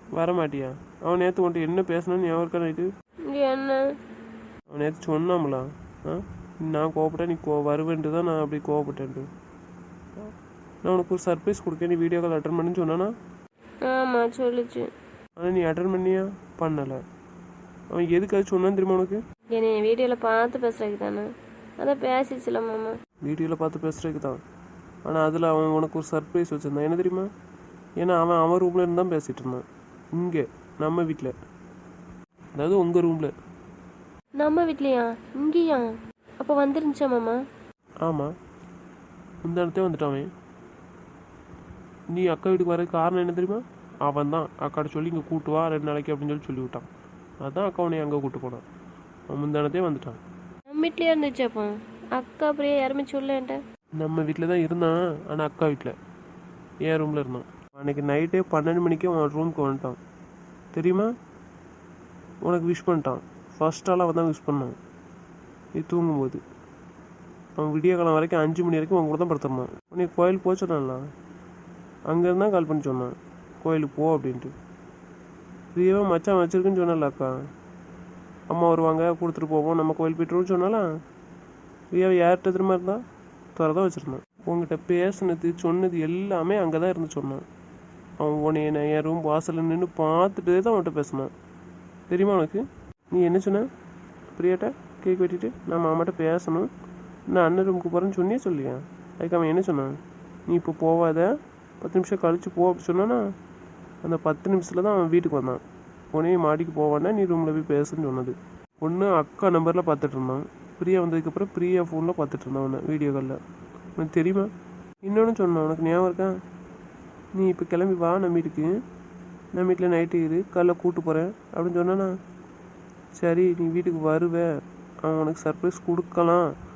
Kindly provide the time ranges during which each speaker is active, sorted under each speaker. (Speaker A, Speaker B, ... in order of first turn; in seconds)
Speaker A: 0.2-2.9, 4.7-9.3, 10.8-13.1, 15.4-17.0, 17.9-19.2, 23.2-24.4, 25.1-27.3, 28.0-29.6, 30.2-31.3, 32.6-33.3, 38.0-38.3, 39.5-40.3, 42.1-46.9, 47.4-48.6, 49.3-50.2, 54.0-56.0, 56.9-60.0, 60.7-61.1, 62.4-64.8, 65.8-66.4, 67.6-71.0, 72.1-74.5, 75.8-77.3, 78.5-80.9, 81.9-83.0, 83.6-87.4, 88.2-91.3, 92.1-93.7, 94.4-96.7, 97.3-99.9, 100.5-103.2, 104.0-105.6, 106.1-113.4, 114.0-114.5, 115.0-116.3, 117.3-118.7, 119.6-122.1, 123.2-124.5, 125.0-126.5
Speaker B: 3.3-3.8, 13.8-14.9, 19.5-21.3, 21.8-23.0, 34.4-35.9, 36.4-37.4, 50.7-53.6